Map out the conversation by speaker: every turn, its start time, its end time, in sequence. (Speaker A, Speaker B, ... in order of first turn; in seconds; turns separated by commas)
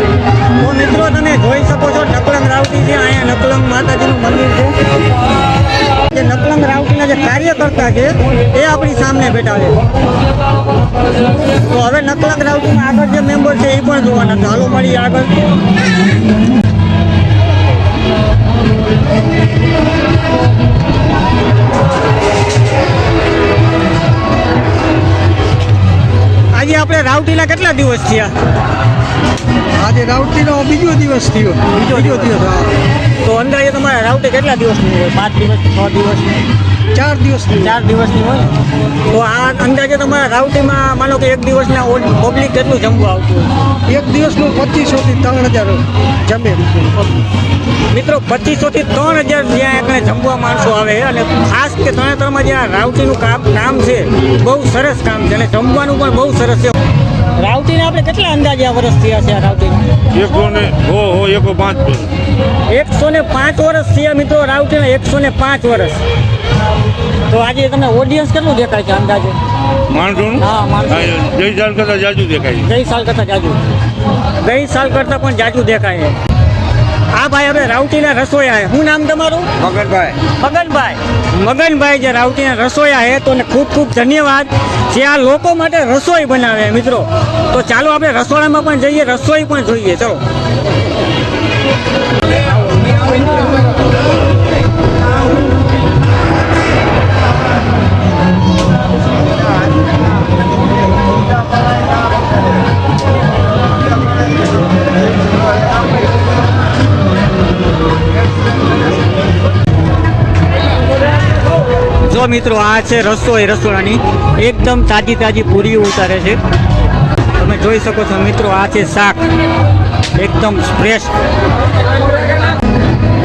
Speaker A: 0.6-4.8, Speaker A: 6.1-9.8, Speaker A: 11.6-15.4, Speaker A: 26.5-28.3, Speaker B: 29.8-32.7, Speaker A: 31.9-32.4, Speaker A: 33.2-36.3, Speaker B: 36.9-37.8, Speaker A: 37.6-38.5, Speaker A: 39.1-43.5, Speaker B: 43.9-46.9, Speaker A: 47.9-56.8, Speaker A: 57.4-59.9, Speaker C: 60.1-62.1, Speaker A: 62.7-66.0, Speaker A: 67.3-69.4, Speaker C: 69.9-72.7, Speaker A: 70.4-71.3, Speaker A: 72.6-73.6, Speaker A: 74.4-76.2, Speaker A: 77.1-79.6, Speaker C: 79.7-80.2, Speaker A: 80.2-90.2, Speaker A: 112.0-116.4, Speaker A: 117.4-119.2, Speaker A: 120.2-121.1